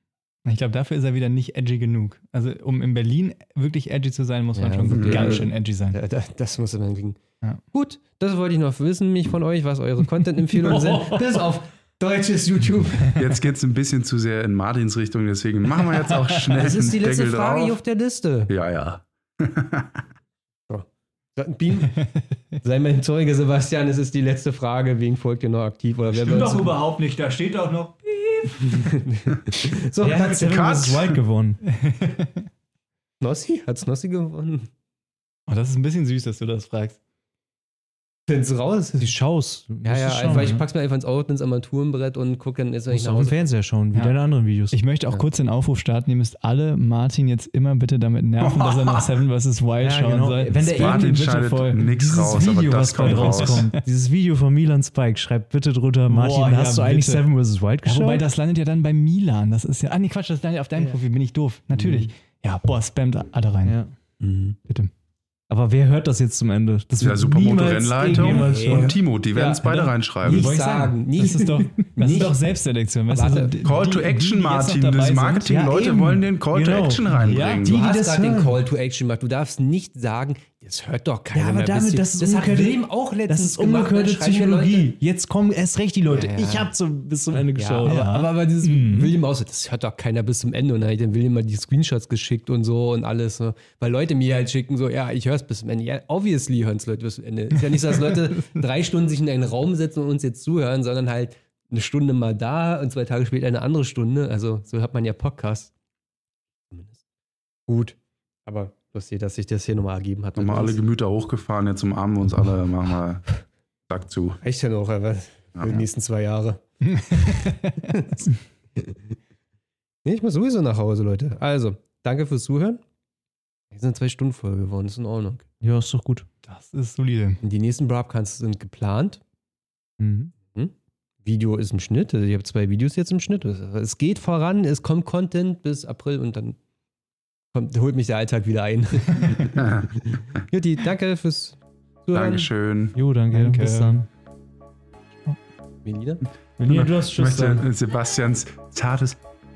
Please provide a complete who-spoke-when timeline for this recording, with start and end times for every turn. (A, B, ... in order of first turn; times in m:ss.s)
0:00.5-0:06.0 A
0:04.6-0:13.2 B
0:04.9-0:05.4 C
0:10.7-0:11.2 D
0:13.2-0:17.8 C
0:16.5-0:18.5 B
0:18.5-0:20.0 C
0:20.7-0:22.0 B
0:22.6-0:26.8 B
0:26.1-0:29.0 A
0:28.7-0:31.0 B
0:30.0-0:31.6 D
0:31.7-0:32.5 A
0:33.2-0:34.7 B
0:35.5-0:37.0 A
0:38.3-0:39.2 B
0:39.0-0:40.6 D
0:39.8-0:43.4 B
0:42.9-0:44.8 D
0:44.7-0:51.8 A
0:48.4-0:49.1 C
0:49.8-0:58.2 D
0:50.7-0:53.7 C
0:53.0-0:53.8 A
0:56.1-0:57.3 A
0:57.8-1:03.8 A
1:01.7-1:02.1 B
1:03.6-1:03.9 D
1:04.2-1:04.6 B
1:05.5-1:09.6 D
1:07.0-1:10.5 C
1:08.1-1:09.0 B
1:08.2-1:08.4 A
1:09.4-1:15.6 A
1:10.2-1:12.4 B
1:10.3-1:11.0 D
1:13.1-1:13.6 B
1:13.6-1:17.8 C
1:15.5-1:17.1 D
1:17.1-1:18.4 A
1:17.7-1:25.0 B
1:17.9-1:18.5 D
1:21.3-1:28.8 D
1:26.1-1:26.7 B
1:27.6-1:45.7 B
1:27.9-1:28.3 A
1:28.8-1:29.1 A
1:46.7-1:47.0 B
1:47.7-1:50.8 B
1:50.4-1:54.4 C
1:54.4-1:56.6 B
1:55.6-1:55.8 C
1:56.9-1:57.9 A
1:57.2-1:59.2 B
2:00.0-2:02.8 B
2:03.7-2:05.4 B
2:05.6-2:06.3 D
2:06.4-2:07.4 A
2:07.4-2:09.2 B
2:10.0-2:10.3 D
2:11.2-2:16.6 B
2:17.5-2:22.5 B
2:19.5-2:19.9 C
2:22.1-2:23.0 C
2:23.0-2:24.1 D
2:23.3-2:24.0 A
2:25.8-2:26.2 B
2:26.6-2:27.6 D
2:26.6-2:29.2 C